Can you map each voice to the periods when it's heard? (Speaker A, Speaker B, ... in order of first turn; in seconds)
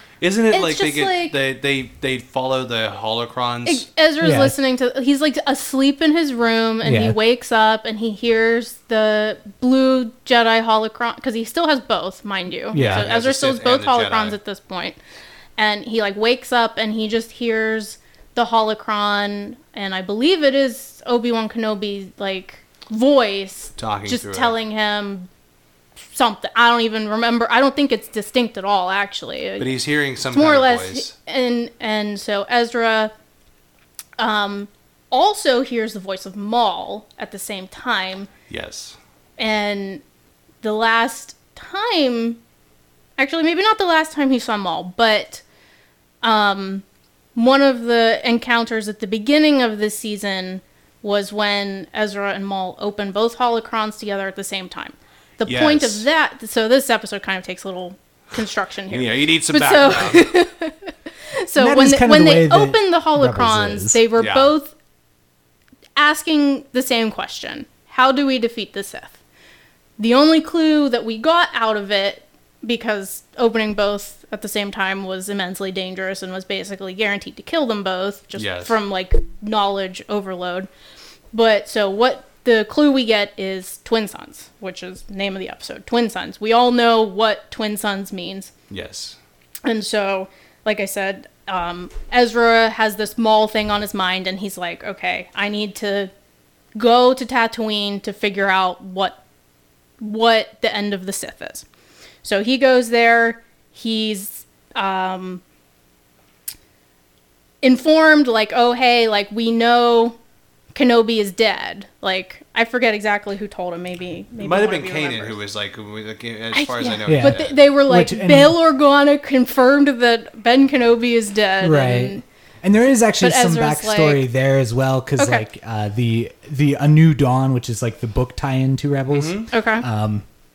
Speaker A: 0.2-3.9, 12.7-14.4, 23.8-24.5, 29.6-31.1, 38.5-39.0, 55.4-56.1, 58.9-60.3, 64.2-64.5, 78.4-78.8, 88.7-89.2, 114.4-117.6, 129.1-129.5
Speaker B: 0.5-1.4, 3.6-15.0, 15.6-25.3, 26.1-29.7, 30.3-33.1, 34.2-38.3, 39.4-40.0, 40.6-42.4, 43.2-45.4, 46.2-46.8, 47.4-64.7, 66.0-69.2, 70.0-80.7, 81.3-88.5, 89.7-96.1, 96.8-99.2, 100.0-101.7, 102.2-105.4, 107.6-110.2, 110.7-115.4, 116.5-122.2, 123.2-124.2, 125.2-125.5, 129.5-129.8
Speaker C: 4.2-4.5, 6.8-7.2, 12.7-13.1, 61.6-64.0, 117.1-118.6, 121.6-130.2